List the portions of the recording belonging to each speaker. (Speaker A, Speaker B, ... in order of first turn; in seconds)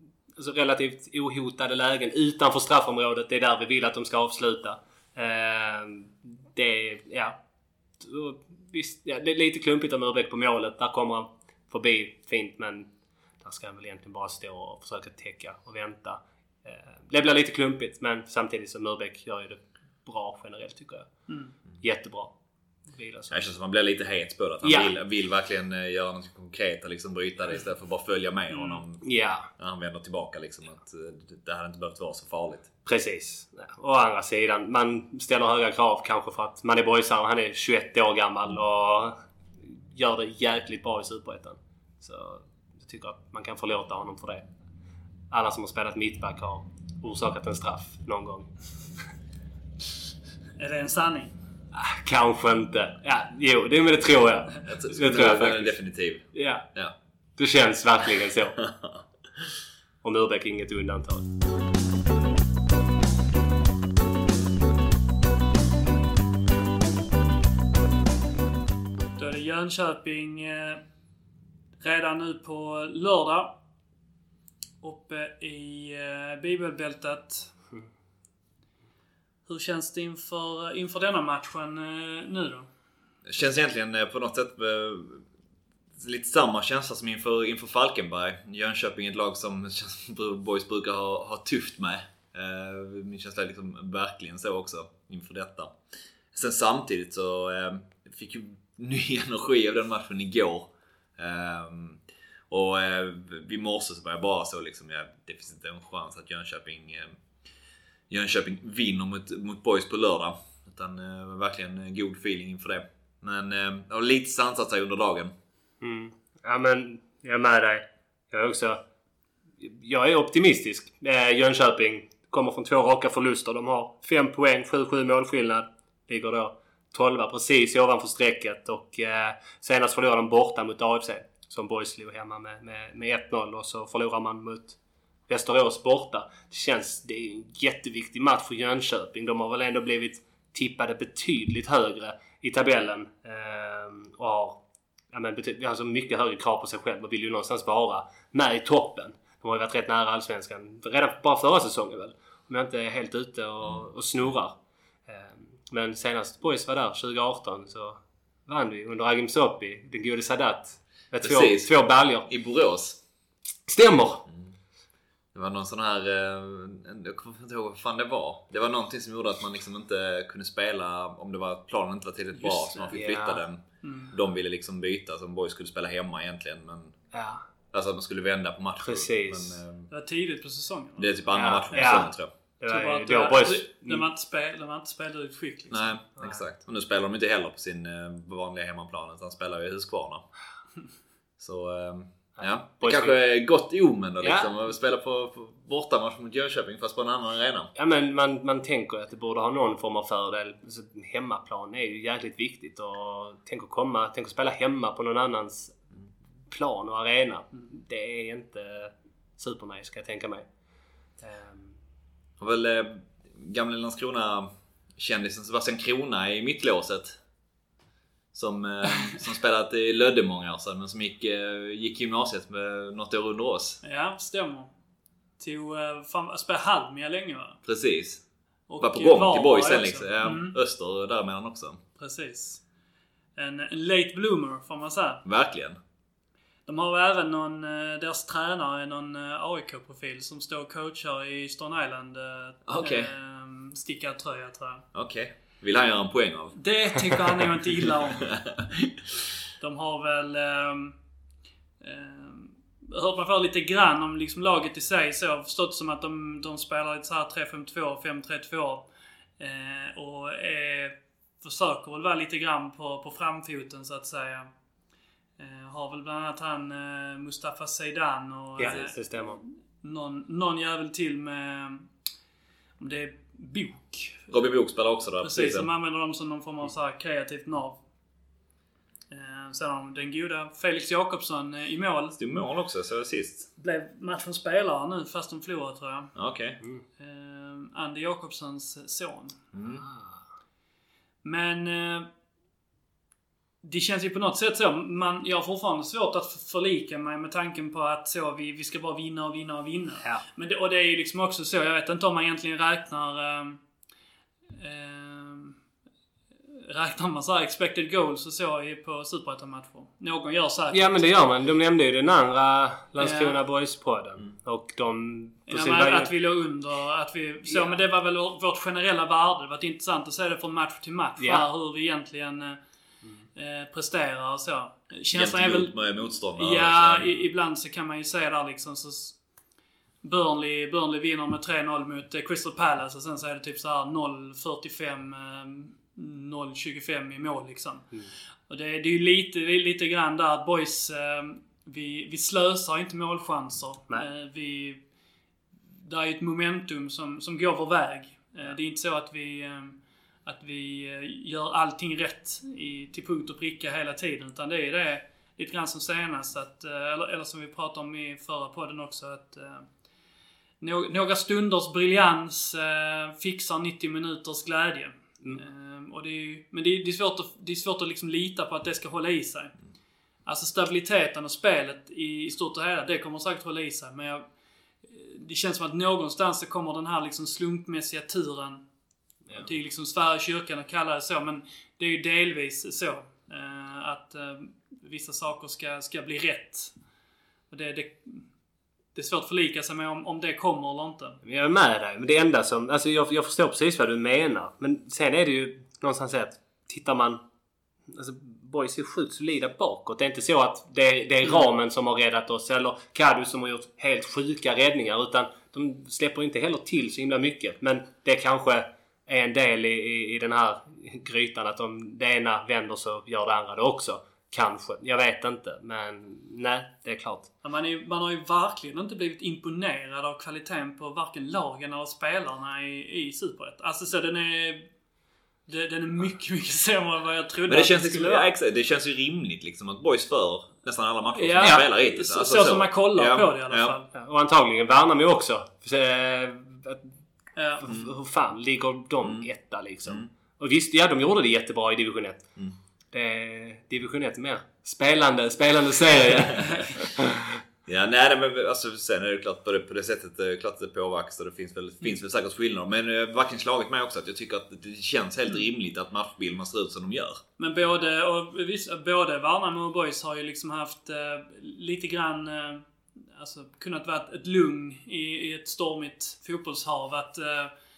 Speaker A: 0.3-7.3, 8.0-12.9, 13.4-21.1, 21.8-22.3, 22.9-23.4, 24.6-24.9, 29.0-29.5, 32.8-44.5, 45.3-48.5, 51.7-55.7, 56.3-56.6, 57.4-58.6, 60.0-61.3, 115.8-118.8, 119.6-144.6, 145.1-162.3, 163.7-164.2, 172.9-173.4, 177.1-177.4, 178.8-179.6, 181.3-184.0, 192.4-193.2, 194.2-194.5, 197.8-205.8, 206.5-210.5, 211.2-211.8, 268.6-269.4, 289.8-290.1, 310.7-316.1, 317.5-317.8, 391.2-397.2, 397.9-417.3, 433.9-436.9, 437.6-442.2, 442.9-447.4
Speaker B: 21.3-21.5, 28.5-28.8, 50.6-51.3, 69.2-70.8, 71.8-73.5, 74.8-77.5, 79.5-82.7, 172.4-172.9, 173.8-174.1, 179.9-182.1, 182.7-186.0, 223.8-224.7, 225.4-227.6, 228.7-230.6, 232.0-232.6, 233.3-235.2, 236.7-244.8, 246.6-248.3, 249.6-250.9, 251.8-258.9, 259.4-264.5, 265.4-271.9, 272.8-274.3, 275.2-277.8, 279.1-282.2, 283.6-286.1, 287.0-289.4, 291.2-292.1, 293.6-303.6, 304.6-305.6, 306.5-311.0, 313.0-313.4, 315.5-322.6, 323.3-329.2, 330.0-337.9, 338.5-344.8, 345.7-359.6, 360.6-369.5, 370.2-374.2, 374.9-378.6, 379.3-386.7, 387.5-388.2, 388.9-391.2, 417.4-424.6, 425.5-428.3, 431.1-433.9, 437.3-437.6, 457.4-467.5
Speaker C: 23.3-32.7, 54.6-56.9, 83.2-85.2, 86.0-95.7, 96.3-107.2, 108.1-115.3, 161.2-161.7, 162.2-163.0, 165.3-176.9, 177.7-179.9, 181.0-182.3, 185.7-190.2, 191.4-197.7, 212.4-217.2, 218.3-223.8, 227.6-228.2, 228.8-231.8, 235.2-235.8, 242.7-243.1, 244.9-246.6, 247.8-248.9, 274.3-275.7, 282.2-283.5, 286.1-286.6, 289.5-289.9, 325.1-327.1, 427.5-433.8, 439.0-439.3, 447.6-457.2